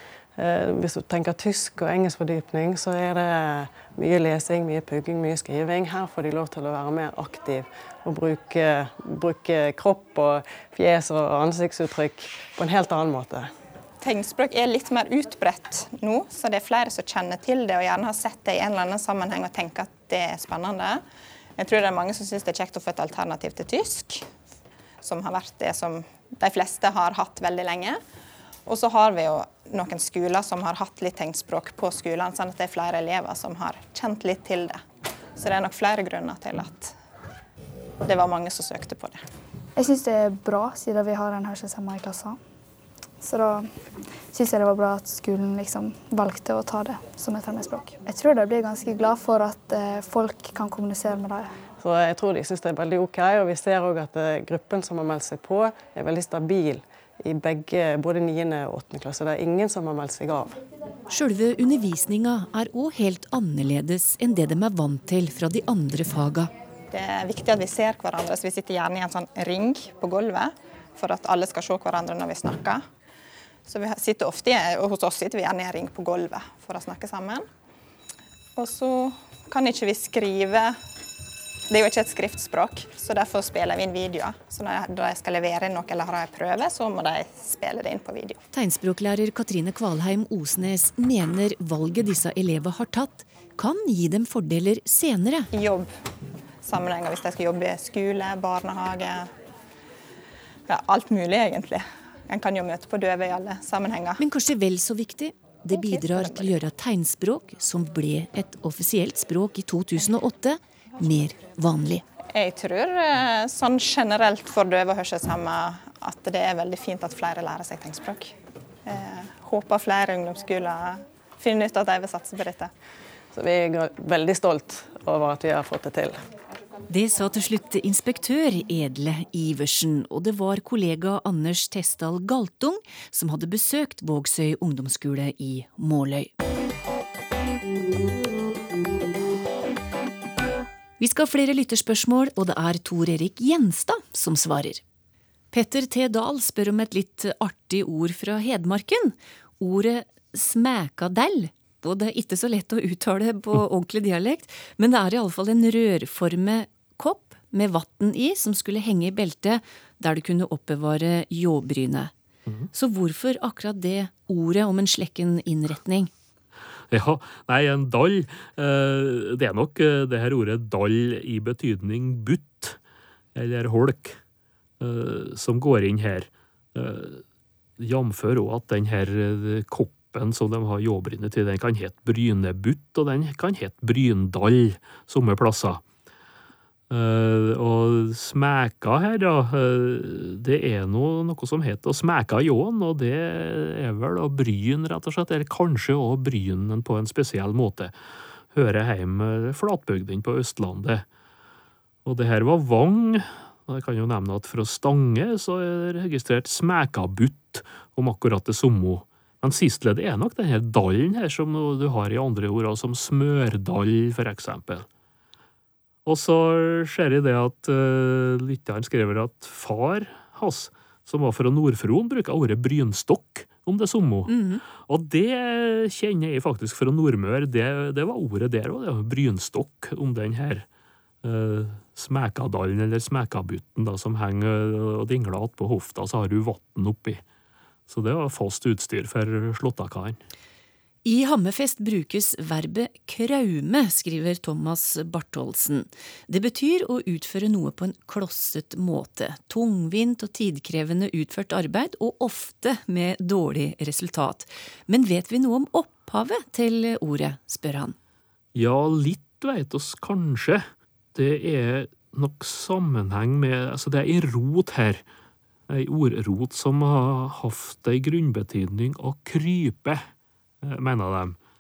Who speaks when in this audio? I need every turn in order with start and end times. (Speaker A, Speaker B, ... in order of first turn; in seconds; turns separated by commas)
Speaker A: 0.4-13.5, Speaker B: 14.0-21.0, Speaker B: 21.6-24.2, Speaker B: 25.0-28.0, Speaker B: 28.7-34.8, Speaker B: 35.4-36.9, Speaker B: 38.0-39.2, Speaker C: 39.8-42.4, Speaker C: 43.2-43.7, Speaker C: 44.3-51.6, Speaker A: 51.8-60.6, Speaker D: 61.1-66.5, Speaker B: 66.9-72.8, Speaker B: 73.7-77.5, Speaker B: 78.6-80.8, Speaker B: 81.7-88.4, Speaker D: 88.5-95.5, Speaker B: 95.5-95.9, Speaker B: 96.6-99.3, Speaker B: 100.7-104.2, Speaker D: 104.2-112.0, Speaker B: 105.7-106.5, Speaker B: 112.3-118.3, Speaker B: 118.8-122.7, Speaker A: 123.3-126.2, Speaker D: 126.9-136.3, Speaker D: 141.0-144.8, Speaker D: 145.5-162.1, Speaker D: 162.7-166.1, Speaker E: 166.9-172.8, Speaker E: 173.3-174.2, Speaker E: 174.8-177.2, Speaker E: 177.8-185.8, Speaker E: 186.9-197.9, Speaker E: 198.5-201.1, Speaker E: 202.1-214.9, Speaker E: 216.1-224.3, Speaker D: 224.3-224.6, Speaker E: 224.8-230.7, Speaker E: 231.2-237.2, Speaker E: 237.9-240.2, Speaker D: 241.1-258.0, Speaker E: 258.6-265.0, Speaker E: 265.7-270.1, Speaker E: 270.6-271.4